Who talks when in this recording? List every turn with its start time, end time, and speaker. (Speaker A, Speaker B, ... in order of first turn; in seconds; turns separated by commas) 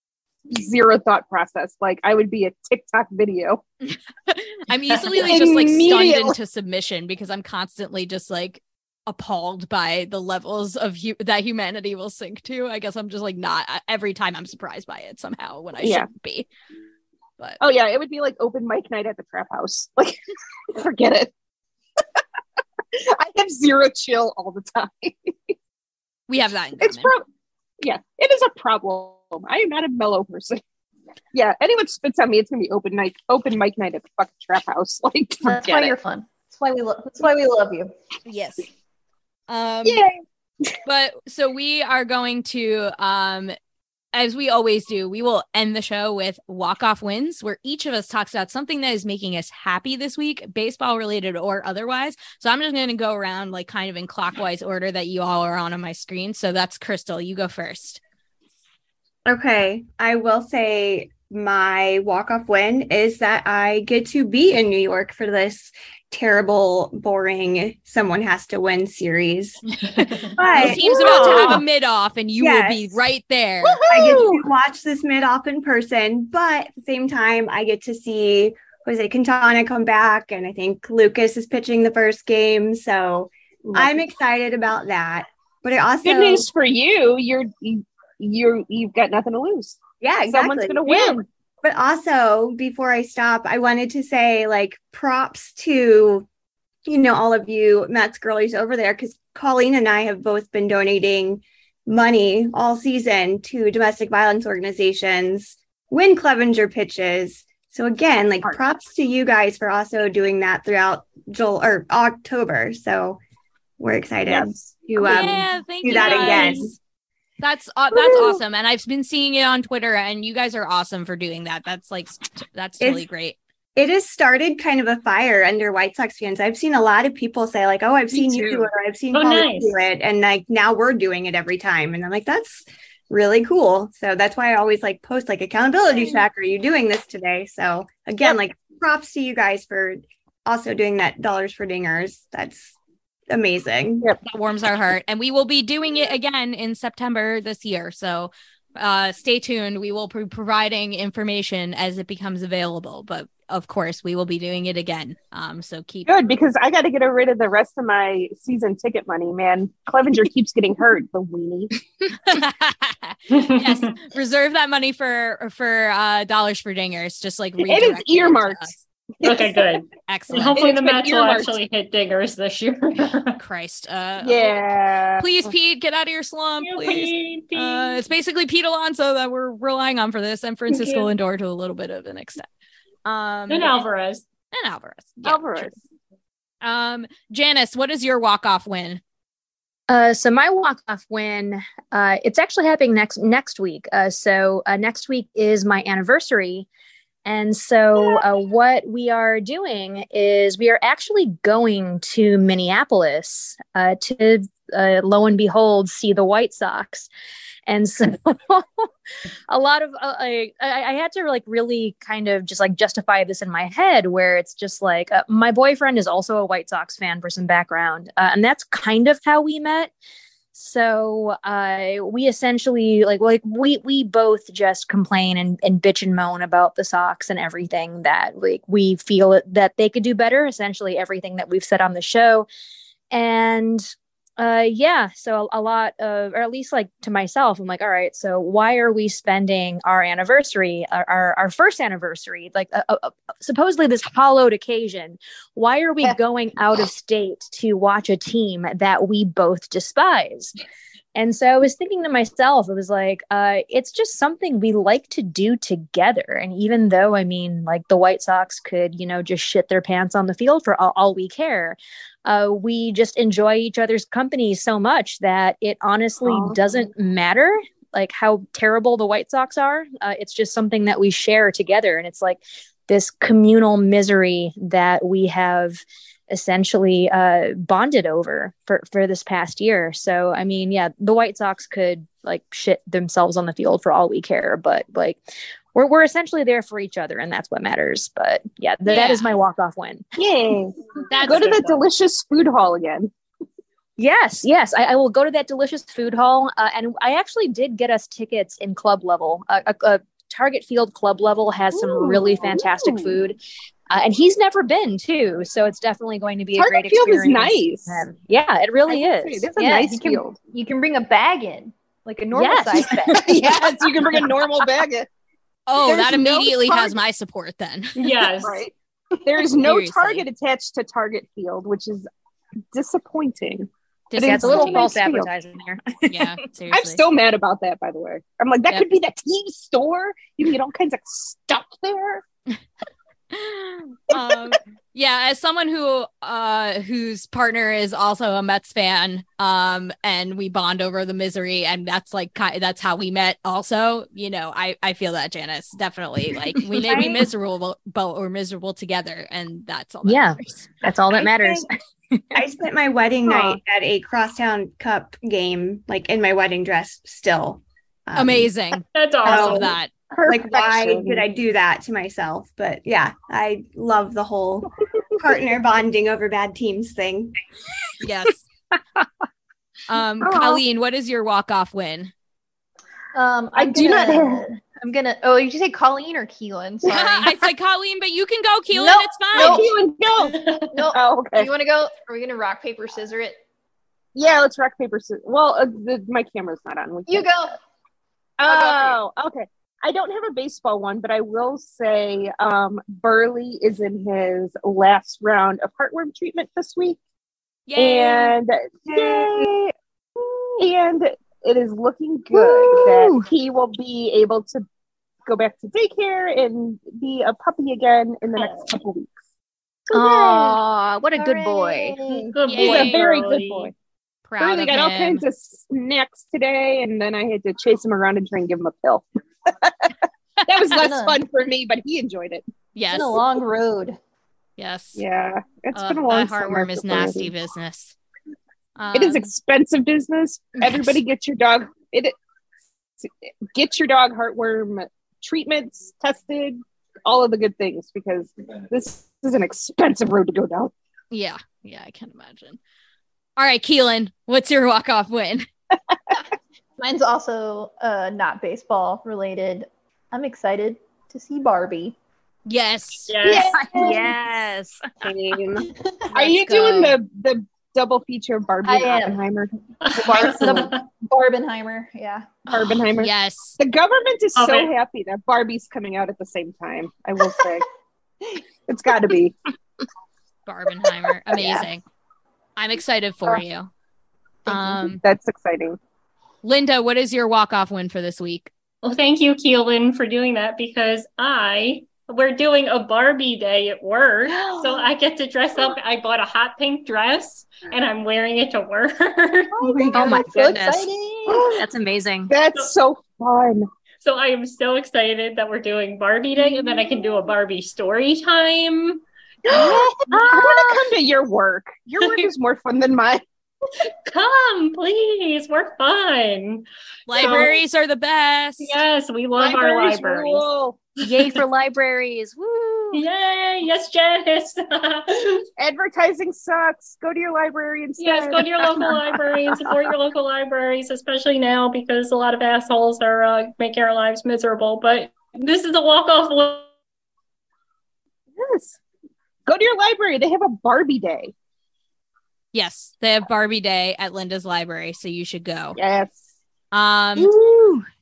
Speaker A: 0.5-3.6, Speaker B: 3.8-16.5, Speaker A: 5.0-6.3, Speaker A: 15.8-16.1, Speaker A: 17.6-20.2, Speaker A: 20.7-21.3, Speaker A: 22.9-25.5, Speaker B: 26.3-27.1, Speaker A: 26.8-27.2, Speaker A: 27.8-30.6, Speaker A: 31.3-36.0, Speaker C: 35.4-37.9, Speaker B: 38.2-38.7, Speaker B: 39.5-40.1, Speaker A: 39.8-40.1, Speaker B: 40.8-43.5, Speaker B: 44.1-58.0, Speaker D: 59.2-69.6, Speaker E: 70.0-70.3, Speaker B: 70.0-73.8, Speaker A: 70.4-71.6, Speaker D: 70.4-71.6, Speaker D: 72.4-73.0, Speaker A: 73.6-74.5, Speaker D: 73.9-86.5, Speaker A: 83.7-84.0, Speaker A: 86.0-91.2, Speaker D: 90.0-96.3, Speaker D: 96.8-113.2, Speaker D: 113.8-116.8, Speaker A: 114.2-115.3, Speaker B: 115.0-116.7, Speaker A: 115.9-116.6, Speaker B: 117.4-123.4, Speaker A: 117.9-118.4, Speaker D: 123.8-142.8, Speaker A: 128.1-128.7, Speaker E: 129.1-129.8, Speaker D: 143.3-144.1, Speaker B: 144.2-156.1, Speaker A: 156.1-161.7, Speaker B: 162.2-168.8, Speaker E: 163.3-163.9, Speaker A: 167.6-169.6, Speaker E: 169.2-173.3, Speaker B: 170.1-170.6, Speaker A: 170.5-171.6, Speaker B: 173.3-174.6, Speaker A: 174.2-175.5, Speaker B: 175.2-182.5, Speaker E: 176.8-178.0, Speaker E: 180.7-181.1, Speaker B: 183.0-183.8, Speaker E: 183.5-184.2, Speaker B: 184.5-185.7, Speaker A: 185.2-185.7, Speaker B: 186.6-189.0, Speaker F: 189.9-196.7, Speaker F: 197.2-207.1, Speaker F: 207.7-208.9, Speaker F: 209.5-219.9, Speaker F: 220.5-232.5, Speaker F: 233.1-250.6, Speaker F: 251.1-290.0, Speaker A: 266.2-266.6, Speaker B: 288.9-289.3, Speaker A: 290.1-293.1, Speaker B: 291.1-291.8, Speaker F: 294.0-303.4, Speaker A: 301.7-303.2, Speaker F: 303.9-309.6, Speaker A: 306.6-308.1, Speaker A: 308.9-310.4, Speaker C: 309.6-314.3, Speaker F: 312.3-313.3, Speaker A: 312.7-315.1, Speaker B: 315.7-318.1, Speaker A: 315.8-316.9, Speaker E: 318.0-318.6, Speaker A: 318.4-318.7, Speaker A: 319.2-322.1, Speaker B: 319.6-320.2, Speaker A: 322.7-325.3, Speaker B: 324.1-324.9, Speaker F: 324.2-325.8, Speaker B: 326.1-327.0, Speaker A: 326.7-332.2, Speaker B: 333.3-350.7, Speaker A: 334.1-334.6, Speaker D: 346.8-347.2, Speaker F: 350.0-351.7, Speaker D: 351.1-351.6, Speaker D: 352.3-358.5, Speaker A: 353.3-353.5, Speaker B: 358.1-359.9, Speaker E: 358.9-359.7, Speaker D: 359.2-359.7, Speaker A: 360.1-361.2, Speaker D: 360.2-367.3, Speaker B: 368.0-368.4, Speaker B: 369.9-372.1, Speaker A: 370.2-370.6, Speaker C: 373.1-377.4, Speaker A: 373.6-374.4, Speaker B: 376.8-379.6, Speaker C: 378.7-379.7, Speaker A: 379.3-381.5, Speaker E: 380.4-380.7, Speaker C: 380.7-383.4, Speaker A: 384.1-387.3, Speaker C: 387.1-387.6, Speaker A: 388.4-397.0, Speaker C: 388.5-389.0, Speaker B: 397.7-398.4, Speaker A: 397.8-399.7, Speaker A: 400.6-404.6, Speaker F: 402.3-403.3, Speaker A: 405.2-409.1, Speaker E: 408.4-408.7, Speaker F: 409.9-412.1, Speaker A: 410.0-410.6, Speaker C: 411.1-412.4, Speaker E: 412.3-413.7, Speaker B: 412.4-413.0, Speaker A: 412.6-413.7, Speaker B: 414.3-415.2, Speaker A: 414.4-419.9, Speaker A: 420.5-422.4, Speaker B: 420.6-420.9, Speaker C: 420.8-421.2, Speaker B: 422.7-423.2, Speaker C: 422.9-424.0, Speaker B: 424.6-425.0, Speaker A: 424.9-427.3, Speaker B: 425.7-427.9, Speaker B: 428.8-429.3, Speaker A: 428.9-432.1, Speaker B: 430.6-431.0, Speaker A: 433.0-440.7, Speaker B: 441.1-442.6, Speaker B: 443.4-445.4, Speaker A: 445.9-446.2, Speaker C: 446.8-451.9, Speaker B: 452.5-453.1, Speaker E: 453.1-453.8, Speaker A: 453.2-454.1, Speaker F: 453.7-455.4, Speaker A: 455.0-460.6, Speaker C: 455.6-456.1, Speaker B: 456.1-457.0, Speaker C: 458.6-459.2, Speaker E: 459.8-460.8, Speaker C: 460.0-462.4, Speaker A: 462.5-467.6, Speaker B: 462.7-463.6, Speaker E: 464.4-464.7, Speaker A: 468.7-469.4, Speaker B: 470.4-471.8, Speaker B: 472.6-473.7, Speaker B: 474.5-475.0, Speaker A: 474.5-475.8, Speaker B: 476.4-478.5, Speaker E: 478.8-489.5, Speaker C: 484.4-484.9, Speaker A: 489.6-490.2, Speaker C: 489.6-491.5, Speaker F: 489.9-492.3, Speaker A: 491.3-491.6, Speaker A: 492.3-493.6, Speaker E: 494.0-500.8, Speaker A: 499.4-503.2, Speaker C: 499.5-500.4, Speaker E: 502.0-502.3, Speaker E: 504.1-507.5, Speaker B: 507.1-508.7, Speaker E: 508.6-510.5, Speaker A: 509.4-510.8, Speaker F: 511.0-513.0, Speaker E: 512.9-515.4, Speaker A: 515.6-519.8, Speaker E: 518.0-526.7, Speaker A: 528.4-528.8, Speaker A: 529.5-531.3, Speaker B: 532.5-535.8, Speaker A: 535.8-536.2, Speaker B: 536.7-537.3, Speaker A: 537.1-537.8